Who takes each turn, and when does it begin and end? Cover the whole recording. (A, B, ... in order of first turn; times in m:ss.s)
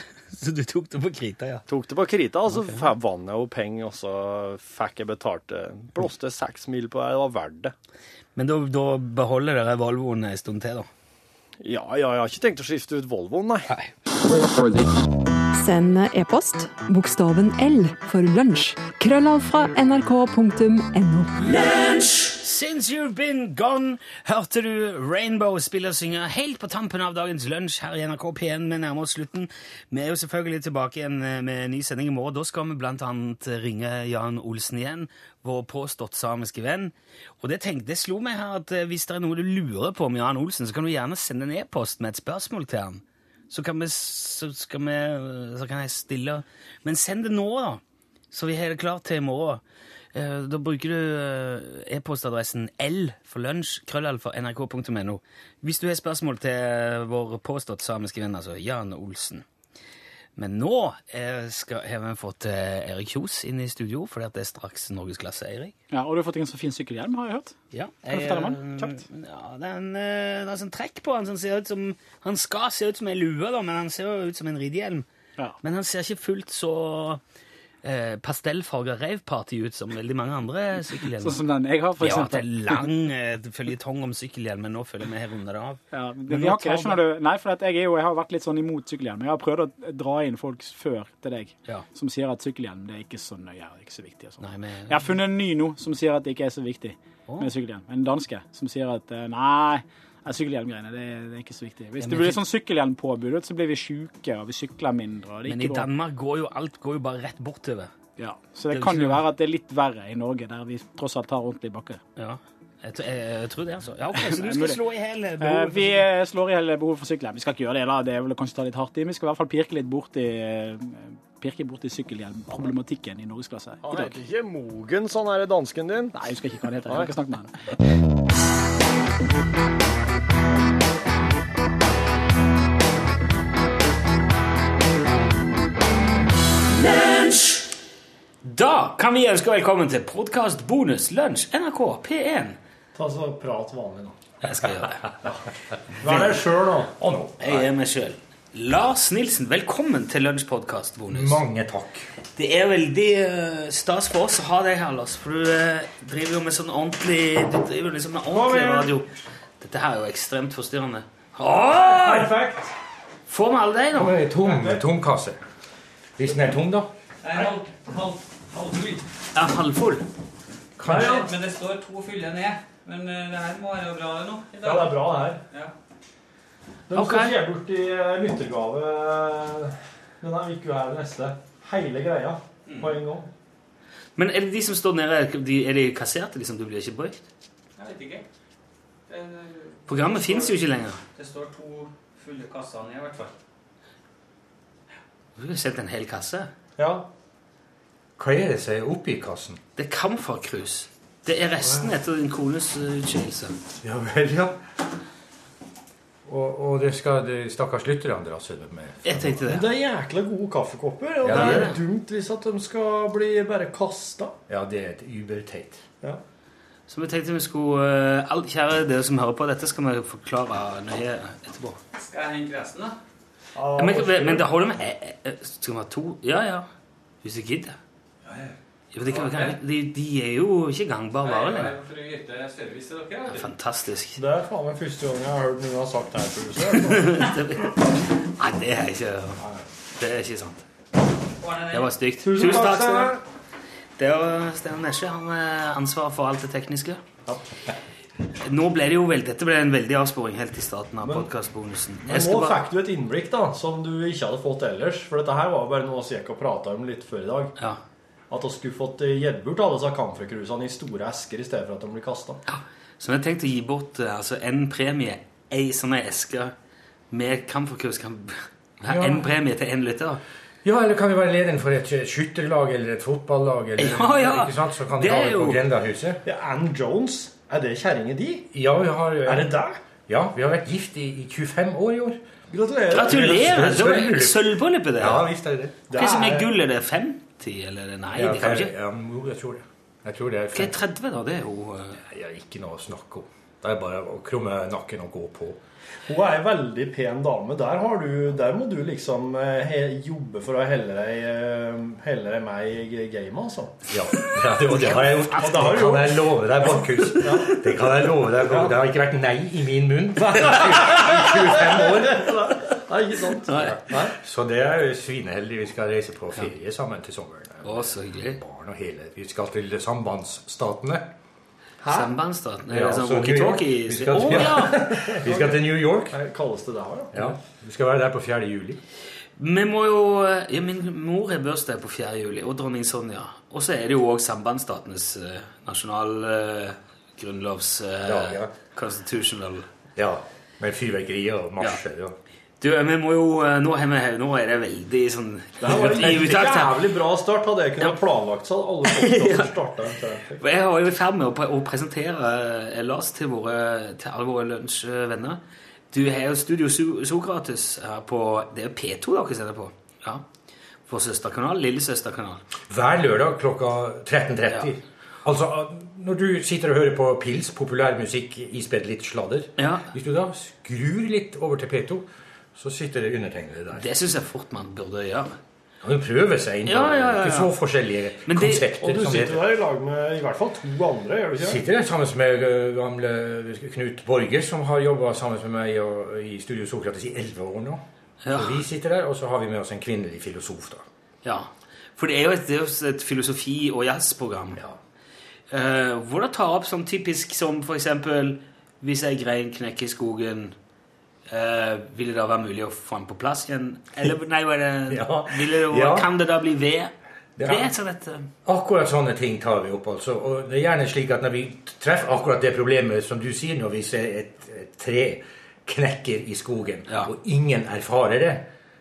0:00.3-0:01.6 A
0:01.7-0:07.7 B
0:08.4-0:10.9 A
0:11.6-0:13.7 B
0:15.5-0:21.5 C
0:21.5-0:49.6 A
0:50.1-0:59.4 A
1:00.4-1:05.7 A
1:05.9-1:07.6 D
1:07.7-1:15.1 A
1:08.1-1:09.0 D
1:15.6-1:17.2 A
1:17.8-1:21.4 A
1:21.2-1:22.9 D
1:22.0-1:27.0 A
1:25.9-1:45.9 D
1:34.4-1:35.2 A
1:37.3-1:37.5 A
1:42.0-1:42.4 A
1:45.5-1:47.9 A
1:48.2-1:52.0 D
1:48.7-1:49.2 A
1:52.2-1:56.1 A
1:54.1-1:54.8 D
1:55.4-2:04.2 D
2:03.8-2:06.2 B
2:06.1-2:07.6 D
2:06.9-2:07.1 B
2:16.9-2:17.6 A
2:18.4-2:22.6 A
2:23.0-2:24.2 B
2:24.4-2:25.1 A
2:26.0-2:26.9 B
2:27.0-2:27.7 E
2:27.4-2:31.4 A
2:31.1-2:32.1 E
2:32.3-2:39.1 A
2:38.3-2:38.9 B
2:39.6-2:42.3 A
2:41.7-2:42.7 B
2:43.3-2:44.2 A
2:43.9-2:45.4 E
2:44.4-2:44.8 B
2:46.2-2:46.9 E
2:47.2-2:48.2 F
2:47.3-2:49.0 B
2:49.3-2:50.0 A
2:50.8-2:51.3 E
2:50.8-2:51.3 B
2:50.9-2:55.7 F
2:54.6-2:55.4 B
2:56.9-3:03.3 B
2:56.9-2:57.4 A
3:02.7-3:03.0 F
3:04.2-3:07.2 A
3:07.8-3:08.2 F
3:09.1-3:10.6 F
3:09.9-3:11.0 A
3:11.1-3:13.3 F
3:15.4-3:16.5 A
3:16.8-3:17.1 B
3:18.2-3:19.6 E
3:19.8-3:23.6 A
3:21.6-3:21.9 E
3:23.8-3:24.6 E
3:26.3-3:29.4 E
3:29.0-3:29.7 A
3:29.4-3:34.4 B
3:31.2-3:31.7 E
3:31.3-3:31.8 A
3:34.5-3:35.8 E
3:36.9-3:41.8 A
3:41.9-3:43.0 F
3:43.6-3:44.5 B
3:43.8-3:46.7 A
3:47.2-3:47.8 A
3:48.2-3:48.5 F
3:48.9-3:51.8 A
3:49.0-3:49.6 F
3:51.2-3:53.5 F
3:53.3-3:54.2 A
3:54.2-3:57.3 B
3:56.7-3:59.4 A
4:00.0-4:00.6 A
4:01.4-4:02.0 F
4:01.7-4:03.2 A
4:02.2-4:03.2 B
4:04.0-4:07.0 A
4:08.4-4:12.6 A
4:12.1-4:17.5 B
4:18.3-4:22.4 B
4:22.5-4:26.5 A
4:27.1-4:30.2 A
4:28.9-4:29.3 E
4:30.6-4:36.2 E
4:33.8-4:35.6 A
4:36.2-4:38.5 B
4:38.5-4:39.5 E
4:39.2-4:39.8 B
4:40.1-4:42.2 E
4:42.5-4:43.9 B
4:42.9-4:45.3 A
4:42.9-4:45.8 E
4:45.9-4:46.5 B
4:45.9-4:48.7 A
4:48.2-4:50.8 E
4:50.5-4:52.0 A
4:52.0-4:55.6 E
4:56.1-5:03.8 B
5:03.9-5:12.4 E
5:04.3-5:05.8 A
5:05.4-5:06.4 B
5:07.1-5:07.6 A
5:07.1-5:07.6 B
5:08.5-5:08.7 B
5:10.2-5:14.1 B
5:13.5-5:13.8 A
5:13.5-5:21.1 E
5:17.6-5:18.4 A
5:21.8-5:22.1 B
5:21.9-5:24.8 A
5:22.7-5:26.2 E
5:24.1-5:27.2 B
5:27.1-5:28.8 E
5:29.4-5:39.7 A
5:38.0-5:38.5 E
5:40.0-5:42.2 E
5:42.6-5:46.7 A
5:45.6-5:50.4 B
5:45.6-5:46.3 E
5:48.9-5:49.5 A
5:50.4-5:55.4 A
5:55.9-6:00.2 A
6:00.9-6:02.4 A
6:02.7-6:13.9 E
6:09.6-6:09.9 A
6:13.8-6:15.4 A
6:15.8-6:19.5 E
6:16.7-6:17.5 A
6:18.3-6:18.7 A
6:18.8-6:21.6 B
6:21.4-6:30.9 E
6:28.2-6:28.6 A
6:31.2-6:34.6 A
6:35.5-6:40.6 A
6:41.3-6:48.3 A
6:44.9-6:46.1 E
6:47.4-6:47.7 E
6:48.4-6:58.5 E